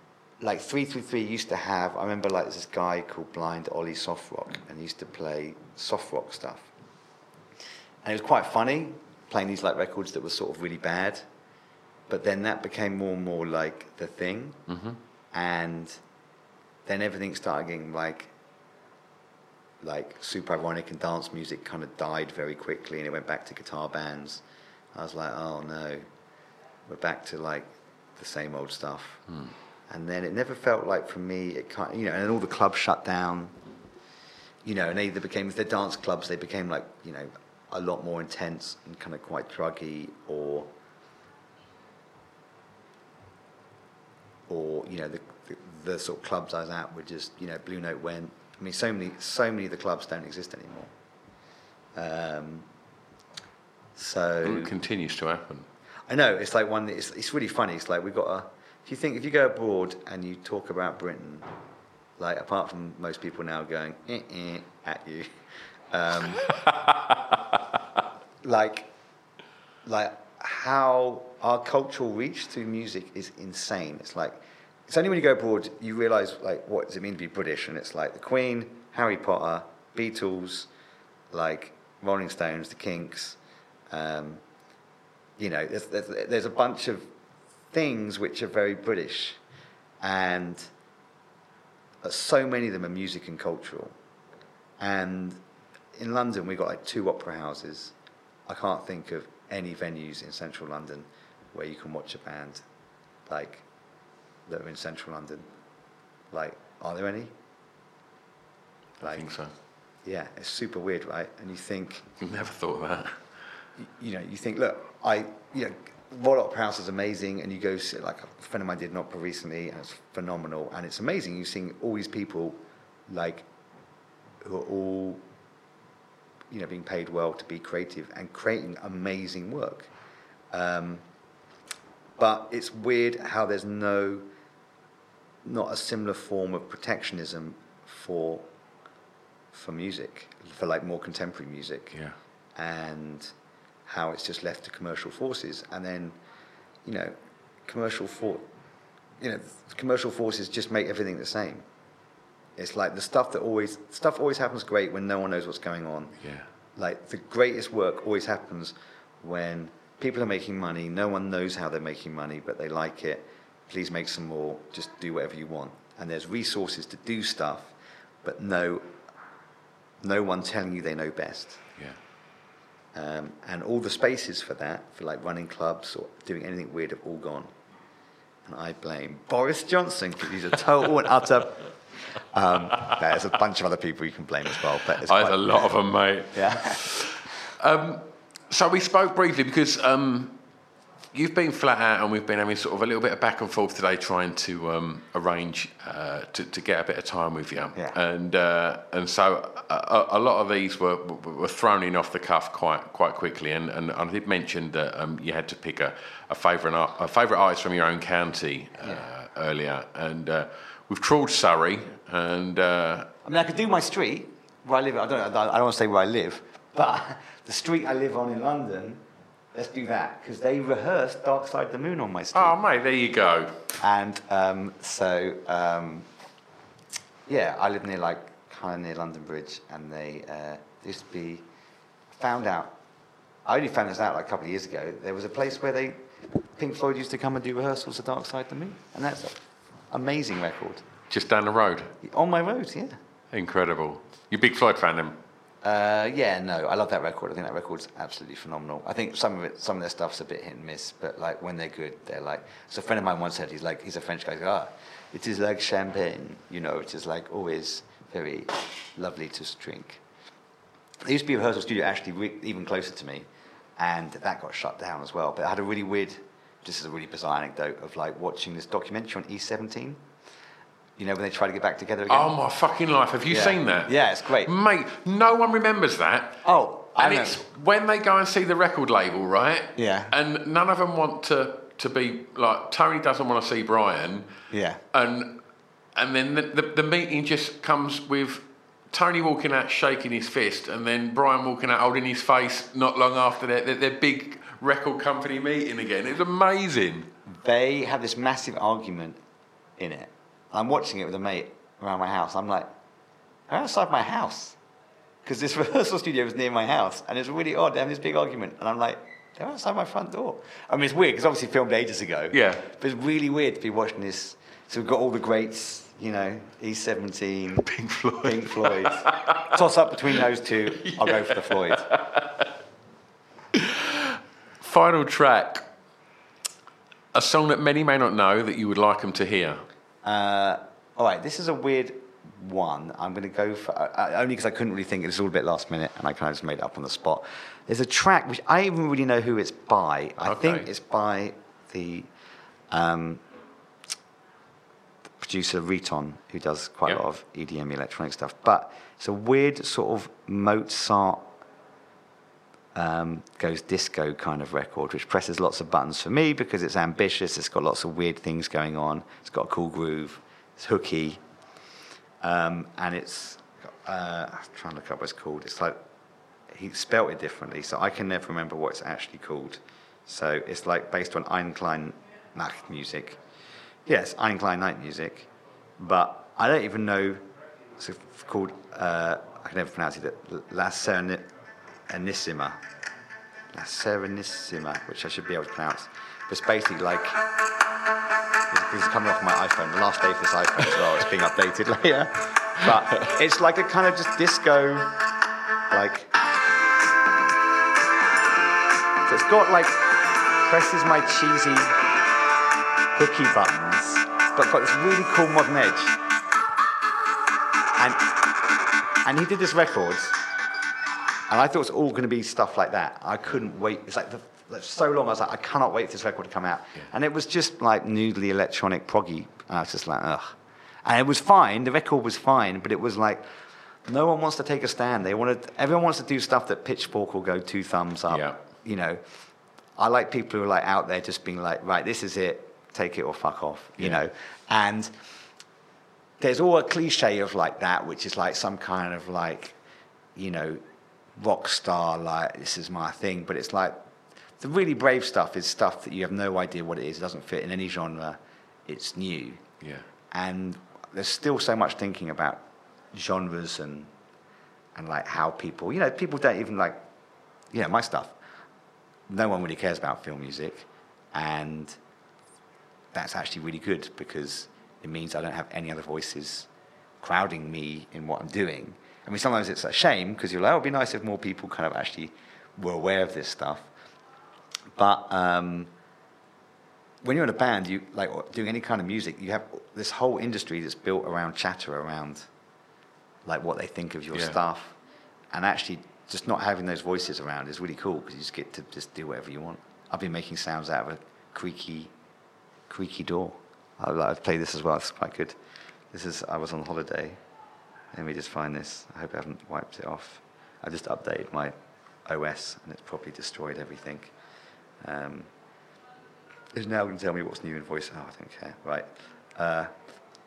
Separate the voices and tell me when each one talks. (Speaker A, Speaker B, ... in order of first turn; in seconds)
Speaker A: 0.4-6.7, 8.0-11.2, 12.1-14.6, 15.3-16.0, 16.9-18.3, 19.8-24.4, 24.9-26.1, 26.9-29.2, 29.9-33.5, 34.6-40.7, 44.5-50.9, 52.0-52.7, 54.0-54.8, 56.1-61.5, 62.2-65.3, 65.9-66.5, 68.4-68.9, 69.8-80.7, 81.3-83.4, 83.9-84.4, 85.4-87.1, 87.7-89.4, 90.0-90.7, 92.0-93.9, 94.8-95.4, 96.0-97.9, 98.5-102.6, 103.3-103.6, 104.5-105.5, 106.3-107.3, 109.0-109.3, 110.0-112.1, 113.8-123.5, 124.4-125.2, 126.5-129.9, 130.5-131.0, 132.2-134.3, 135.4-138.5, 139.5-142.0, 142.6-143.3, 143.9-146.2, 146.8-147.2, 147.7-148.4, 149.2-151.7, 152.6-156.2, 156.8-168.9, 170.0-171.6, 172.9-177.5, 178.4-181.7, 182.3-185.7, 186.3-186.8, 213.2-219.0, 219.5-222.6, 223.8-226.1, 227.3-231.4, 232.2-232.8, 233.4-236.0, 236.6-240.8, 242.0-243.0, 245.6-260.0, 261.0-270.0, 271.0-272.3, 273.3-274.5, 276.4-277.4, 279.8-280.1, 284.5-284.8, 297.2-299.2, 299.8-302.7, 303.5-304.6, 305.2-317.7, 318.2-321.9, 330.0-342.1, 342.7-343.2, 345.2-351.3, 352.8-361.2, 362.2-365.8, 366.5-373.2, 373.9-375.3, 375.8-377.2, 377.8-381.3, 381.9-382.6, 383.5-387.2, 388.5-394.9, 395.7-396.1, 399.1-399.8, 400.4-401.8, 402.9-406.0, 409.1-410.2, 411.3-420.3, 420.9-423.2, 423.9-429.0, 429.8-434.9, 436.2-439.6, 440.2-440.6, 441.2-443.8, 444.4-449.4, 450.1-453.9, 454.8-456.8, 457.5-458.1, 459.1-461.8, 462.9-466.5, 467.0-473.7, 474.8-475.7, 477.0-482.3, 483.2-484.8, 485.3-491.9, 492.7-495.4, 495.9-497.2, 497.9-501.6, 502.1-504.1, 504.8-505.3, 506.5-509.7
Speaker B: 14.7-15.0, 29.3-29.5, 54.4-55.7, 66.6-67.1, 109.0-109.5, 112.2-113.2, 156.2-156.5, 185.0-190.4, 191.1-213.1, 222.3-223.6, 241.1-241.9, 243.3-245.2, 272.1-276.4, 276.9-284.3, 284.9-285.4, 285.9-297.1, 312.3-312.7, 317.6-319.6, 320.7-322.5, 323.6-325.7, 327.1-329.6, 340.2-340.7, 392.7-393.1, 428.1-428.4, 449.6-449.9, 484.1-484.4